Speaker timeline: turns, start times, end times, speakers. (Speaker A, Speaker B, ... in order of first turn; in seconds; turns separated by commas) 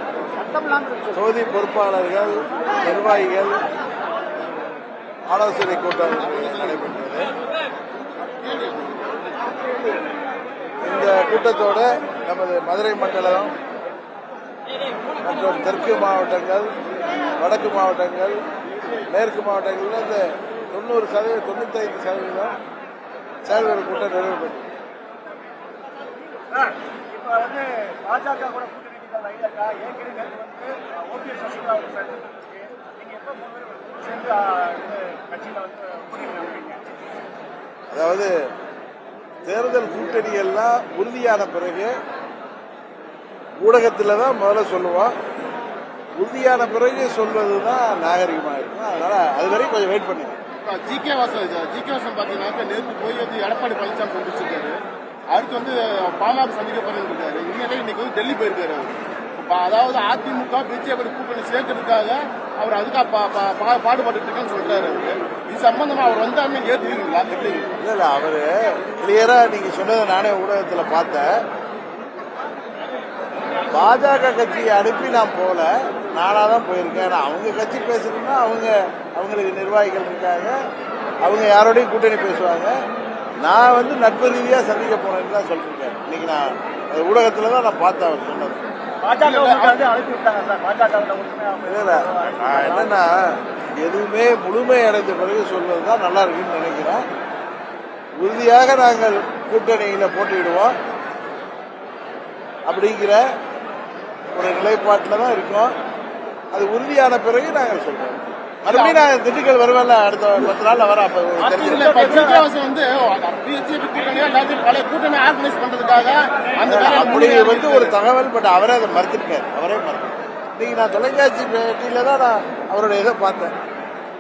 Speaker A: 0.4-1.1, Speaker B: 1.1-3.6, Speaker B: 5.3-7.3, Speaker C: 6.3-6.8, Speaker C: 8.2-9.3, Speaker B: 10.8-13.5, Speaker B: 15.2-16.7, Speaker B: 17.4-18.4, Speaker B: 19.1-22.6, Speaker B: 23.5-24.7, Speaker A: 26.5-36.9, Speaker B: 37.9-38.3, Speaker B: 39.5-41.9, Speaker B: 43.6-45.1, Speaker B: 46.2-50.4, Speaker C: 50.6-54.8, Speaker C: 55.3-67.7, Speaker B: 67.8-71.3, Speaker B: 73.7-80.5, Speaker B: 81.2-82.8, Speaker B: 83.4-88.6, Speaker A: 89.0-93.0, Speaker C: 89.2-89.8, Speaker B: 91.7-97.0, Speaker B: 98.2-100.8, Speaker B: 102.7-103.2, Speaker B: 104.3-105.7, Speaker B: 106.5-112.2, Speaker A: 108.7-109.0, Speaker A: 111.4-112.5, Speaker C: 111.6-118.0, Speaker B: 116.6-123.5